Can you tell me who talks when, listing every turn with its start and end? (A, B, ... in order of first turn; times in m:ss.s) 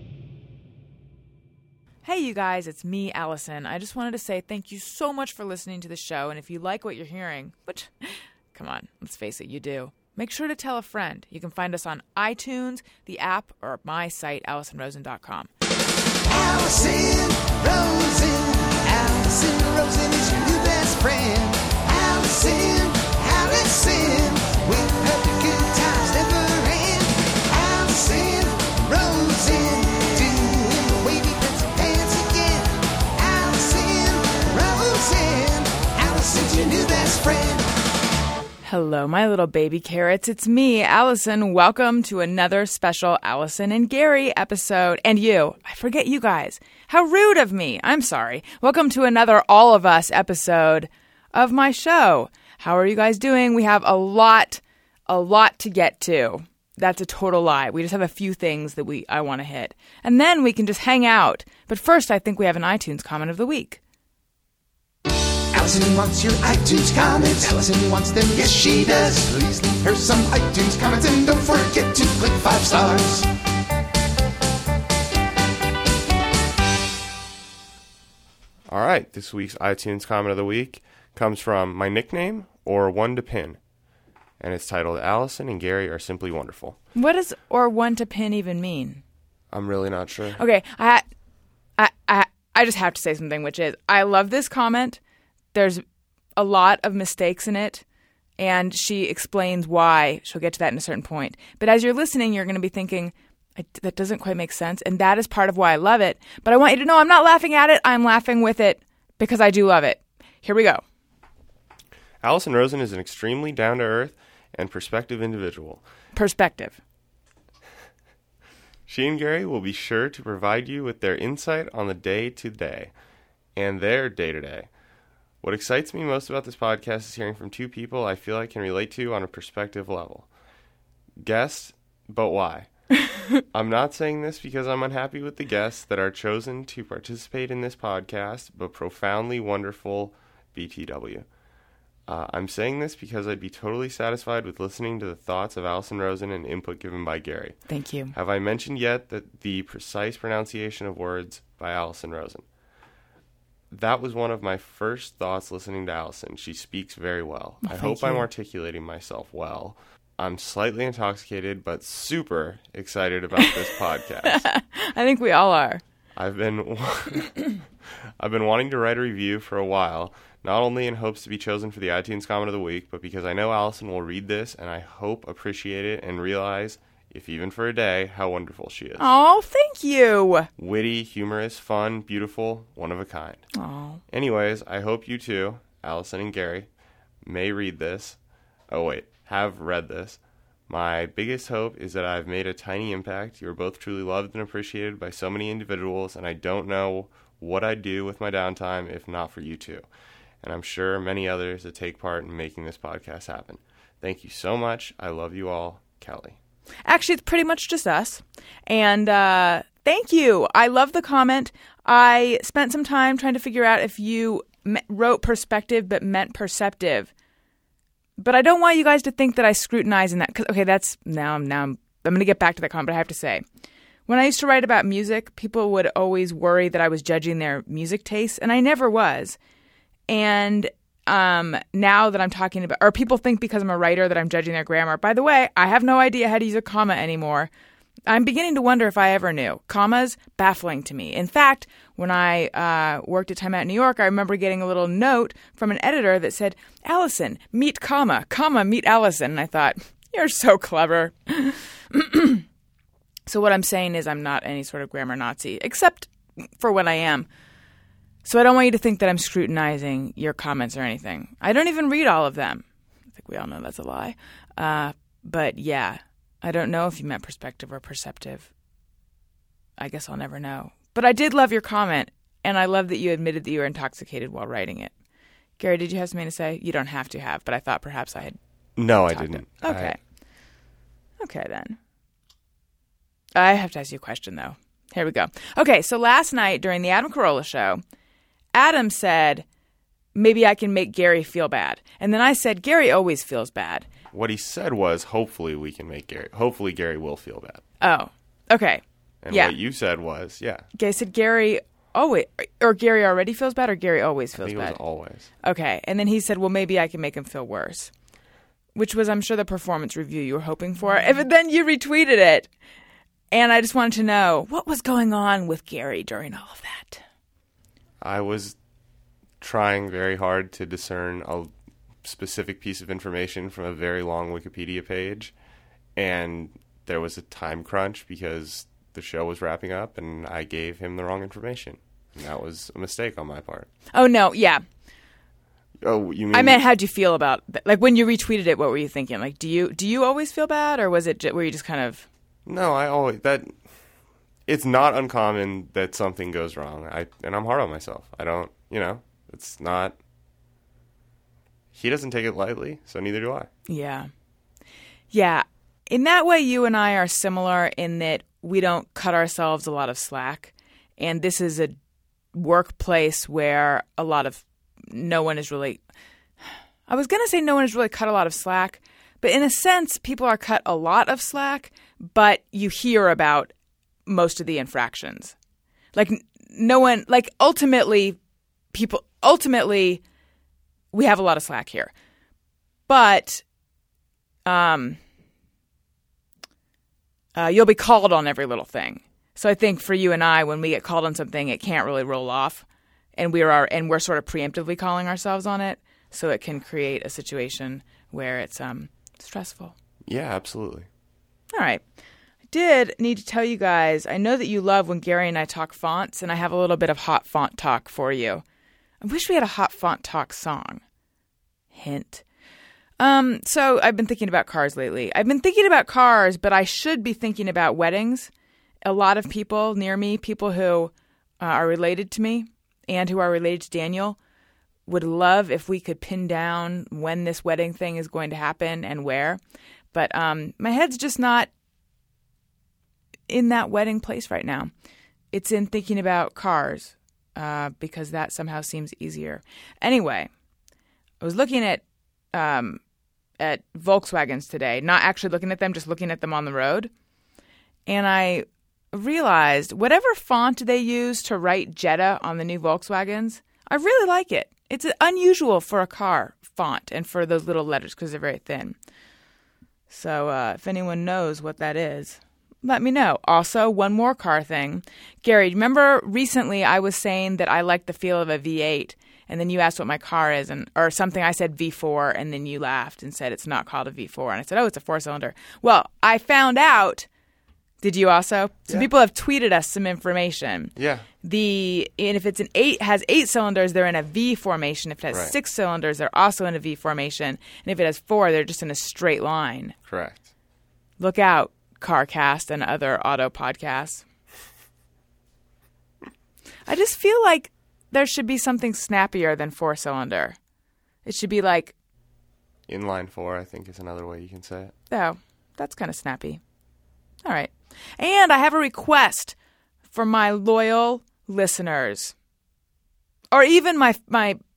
0:02.0-0:15.5 A
0:16.3-0:37.7 B
0:38.6-1:03.8 A
1:05.5-1:13.3 B
1:18.7-1:23.6 C
1:24.4-1:26.8 C
1:26.9-1:29.0 A
1:29.5-1:30.4 C
1:30.4-1:31.0 A
1:31.8-1:35.0 A
1:35.5-1:35.8 A
1:36.4-1:37.8 A
1:38.4-1:50.8 A
1:52.2-1:55.8 C
1:56.1-1:56.8 A
1:58.9-2:02.9 C
2:03.6-2:04.7 C
2:05.4-2:10.3 C
2:11.2-2:12.7 C
2:13.5-2:21.3 C
2:22.1-2:27.6 C
2:27.7-2:28.1 A
2:28.1-2:32.4 C
2:33.7-2:44.5 C
2:37.6-2:38.2 A
2:43.4-2:43.6 A
2:44.2-2:45.8 A
2:46.1-2:47.4 C
2:48.2-2:59.1 C
2:59.0-3:00.5 A
3:00.6-3:03.4 C
3:03.5-3:04.0 A
3:04.1-3:06.7 C
3:07.2-3:08.2 C
3:08.7-3:19.8 C
3:20.4-3:26.4 C
3:26.8-3:37.1 A
3:38.2-3:43.4 A
3:44.1-3:49.4 A
3:50.1-3:57.5 A
3:58.1-4:12.4 A
4:13.3-4:17.3 A
4:18.2-4:28.5 A
4:29.8-4:34.9 A
4:35.6-4:38.4 A
4:38.8-4:40.0 C
4:39.1-4:40.0 A
4:41.2-4:41.8 A
4:43.3-4:47.8 A
4:48.5-4:49.4 A
4:50.1-4:53.8 A
4:54.1-4:57.6 C
4:57.8-4:59.5 A
4:59.2-5:00.7 C
5:00.8-5:04.8 A
5:04.4-5:05.3 C
5:05.4-5:07.9 A
5:08.7-5:12.5 A
5:13.3-5:17.0 A
5:18.0-5:18.6 C
5:19.4-5:21.5 C
5:22.0-5:25.3 C
5:26.0-5:33.7 C
5:33.9-5:34.6 A
5:35.8-5:36.6 C
5:36.3-5:42.0 A
5:42.4-5:43.5 C
5:44.5-5:50.0 C
5:51.7-5:53.5 C
5:53.7-5:54.1 A
5:55.1-6:01.8 A
6:02.3-6:05.8 A
6:06.9-6:13.5 A
6:14.0-6:15.4 A
6:15.9-6:18.2 A
6:18.7-6:20.0 A
6:20.9-6:21.9 A
6:22.9-6:23.4 A
6:24.4-6:25.0 A
6:27.3-6:32.6 A
6:33.2-6:39.7 A
6:40.1-6:40.9 C
6:41.5-6:41.8 A
6:42.5-6:48.4 A
6:49.0-6:50.8 A
6:51.7-6:52.2 A
6:53.0-6:58.3 A
6:58.8-7:04.2 A
7:04.9-7:09.4 A
7:09.9-7:11.5 A
7:13.3-7:14.7 A
7:15.3-7:20.3 A
7:21.2-7:22.8 A
7:23.4-7:26.9 A
7:27.9-7:38.8 A
7:39.9-7:57.1 A
7:57.8-8:09.7 A
8:00.8-8:01.0 C
8:09.8-8:10.3 C
8:11.0-8:14.0 A
8:16.7-8:20.4 A
8:21.0-8:21.7 A
8:22.7-8:24.7 C
8:24.9-8:26.4 A
8:27.2-8:29.3 A
8:29.9-8:32.1 A
8:33.3-8:34.4 A